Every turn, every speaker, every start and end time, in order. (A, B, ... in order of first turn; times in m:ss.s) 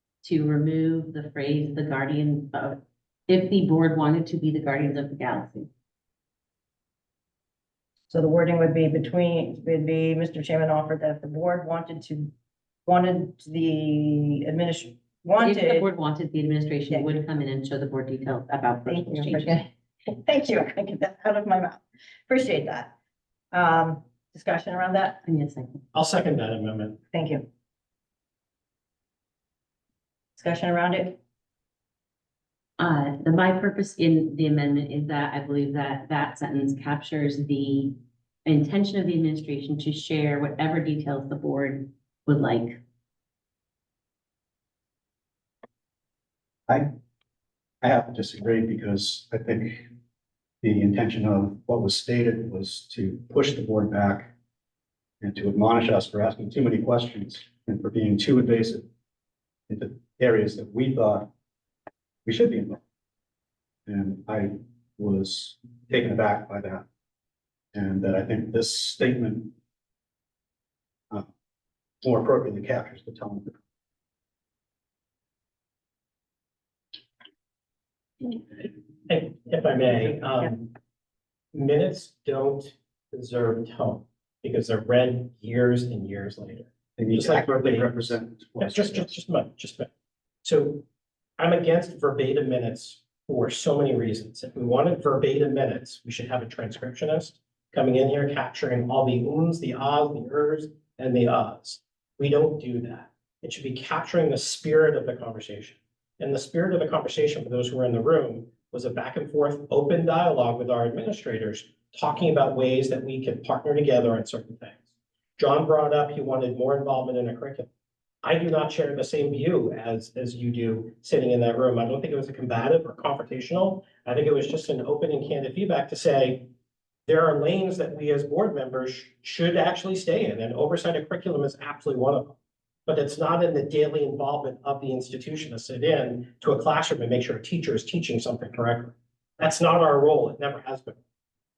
0:00.2-0:05.7 A
0:08.1-0:12.3 B
0:12.9-0:15.9 B
0:15.4-0:19.6 A
0:16.9-0:17.3 B
0:18.9-0:23.0 B
0:23.5-0:25.2 B
0:25.2-0:25.8 A
0:25.9-0:27.0 C
0:27.1-0:27.5 B
0:30.4-0:31.2 B
0:32.8-0:42.8 A
0:46.7-0:46.9 D
0:47.8-0:49.9 D
0:50.6-0:54.3 D
0:55.2-0:58.9 D
0:59.7-1:01.3 D
1:02.2-1:02.8 D
1:03.9-1:06.9 D
1:07.7-1:09.6 D
1:12.0-1:13.6 D
1:19.1-1:20.7 C
1:21.5-1:29.9 C
1:27.0-1:29.1 D
1:30.4-1:30.9 C
1:31.4-1:54.9 C
1:55.4-1:57.7 C
1:58.2-2:06.5 C
2:07.1-2:12.4 C
2:12.9-2:21.0 C